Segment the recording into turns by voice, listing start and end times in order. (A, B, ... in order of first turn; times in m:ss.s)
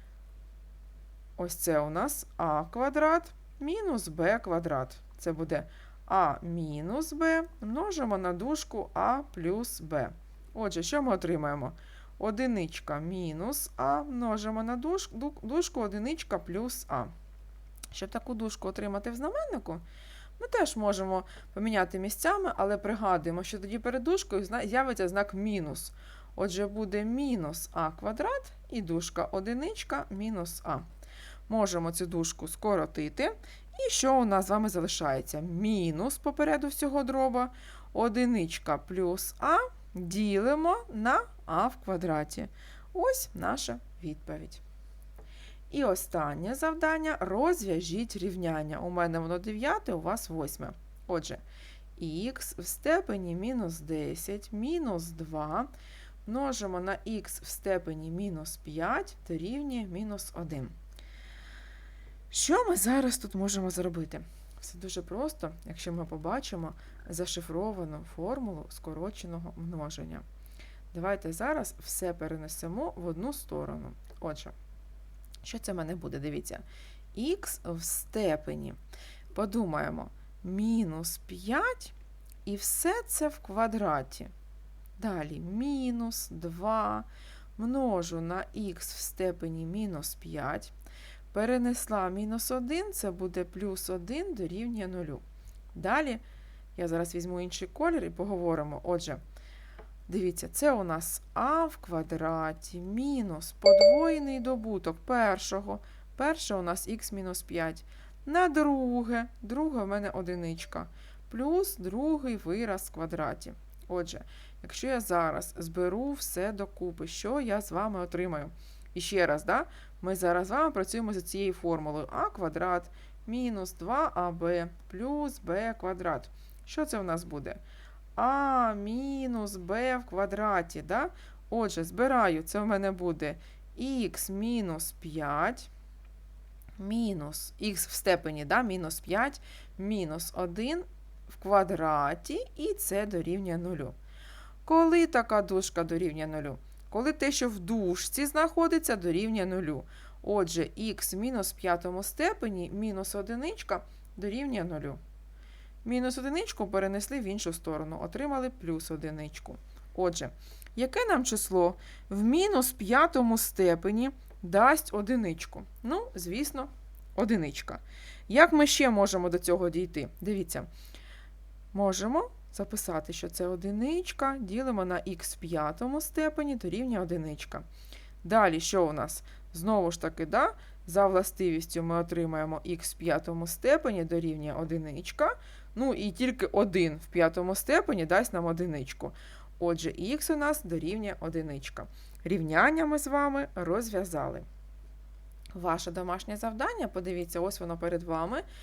0:01.4-0:17.1 A
0:17.9-0:19.8 A
0:20.4-0:30.8 A
0:31.5-0:44.6 A
0:45.7-0:51.4 A
0:52.0-0:55.7 A
0:56.3-1:00.7 A
1:02.3-1:10.2 A
1:10.9-1:14.5 A
1:15.4-1:16.6 A
1:17.1-1:18.8 A
1:19.3-1:24.3 A
1:25.0-1:30.7 A
1:31.3-1:36.2 A
1:36.8-1:39.2 A
1:40.1-2:07.6 A
2:08.2-2:15.7 A
2:16.8-2:24.0 A
2:24.6-2:35.0 A
2:35.8-2:50.7 A
2:51.7-2:57.6 A
2:58.2-3:14.5 A
3:15.5-3:18.4 A